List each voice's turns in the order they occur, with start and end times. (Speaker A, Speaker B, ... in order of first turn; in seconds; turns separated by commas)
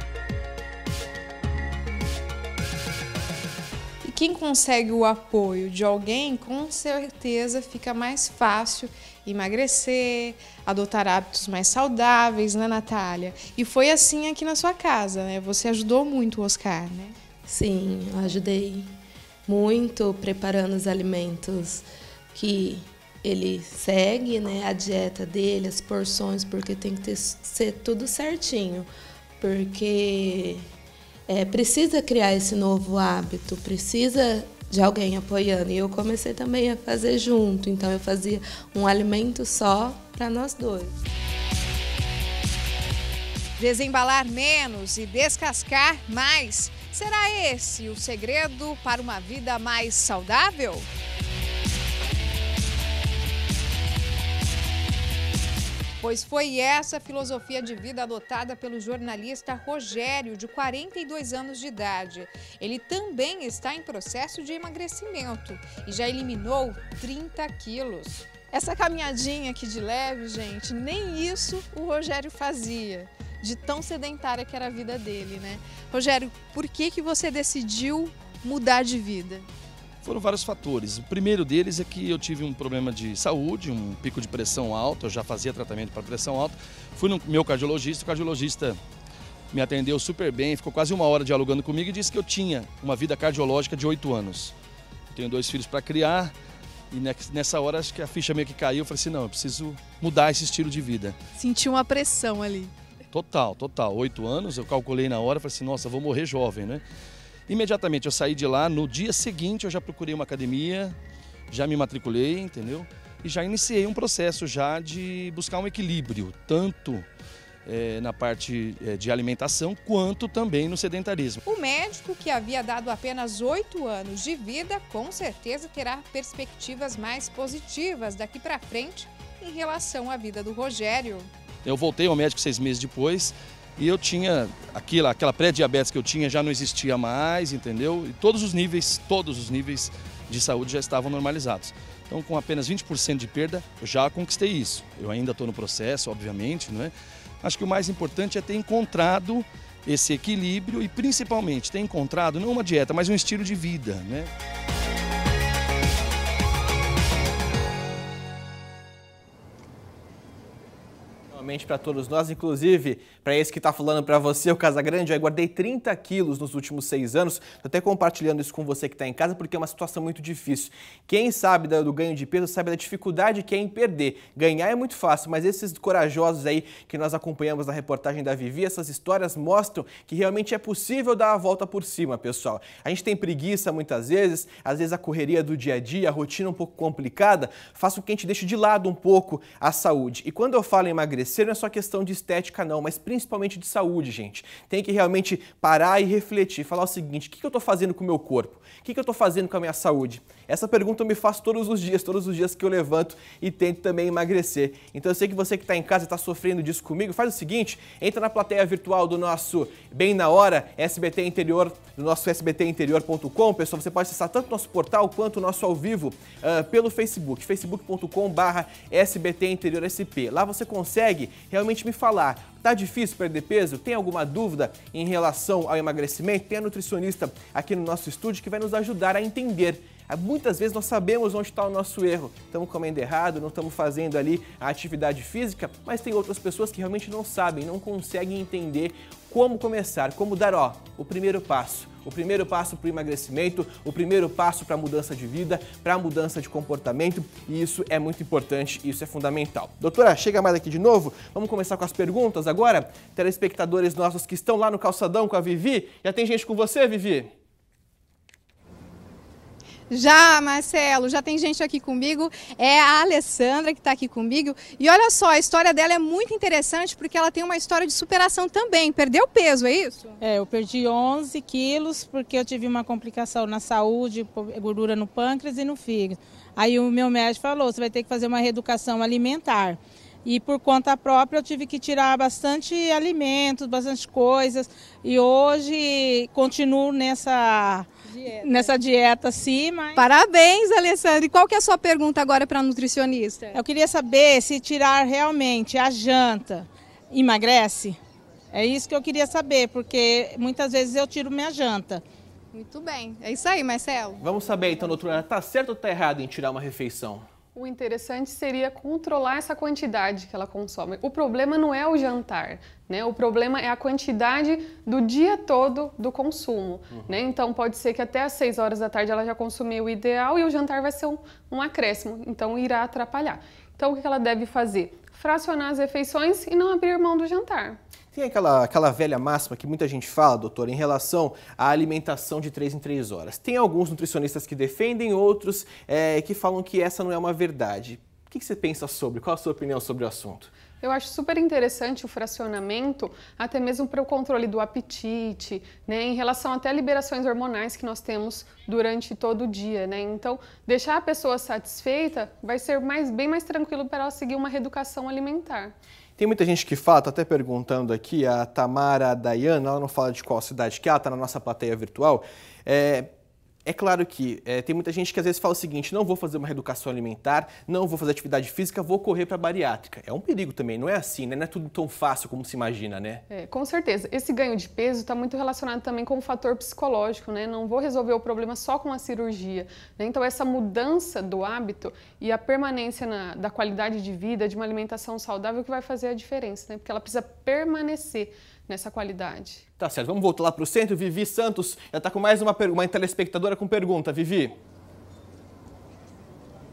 Speaker A: 4.0-17.1, Speaker B: 17.4-18.9, Speaker B: 19.5-28.9, Speaker B: 29.4-30.7, Speaker B: 31.3-40.9, Speaker A: 43.6-50.9, Speaker A: 56.0-79.5, Speaker C: 80.0-88.8, Speaker C: 89.5-94.5, Speaker C: 95.1-96.3, Speaker C: 96.9-101.2, Speaker A: 101.3-102.7, Speaker C: 103.1-106.8, Speaker C: 107.5-111.0, Speaker C: 111.5-117.0, Speaker C: 117.7-121.4, Speaker A: 121.4-131.3, Speaker C: 131.6-154.3, Speaker D: 161.3-257.3, Speaker A: 259.9-270.2, Speaker E: 270.2-290.0, Speaker A: 288.4-288.7, Speaker A: 289.9-293.5, Speaker E: 293.5-298.0, Speaker E: 298.5-302.0, Speaker A: 302.5-304.2, Speaker D: 304.2-307.2, Speaker F: 307.5-327.8, Speaker D: 328.1-340.5, Speaker F: 340.8-355.7, Speaker D: 356.2-363.1, Speaker D: 363.6-373.2, Speaker F: 373.3-389.6, Speaker D: 389.8-394.6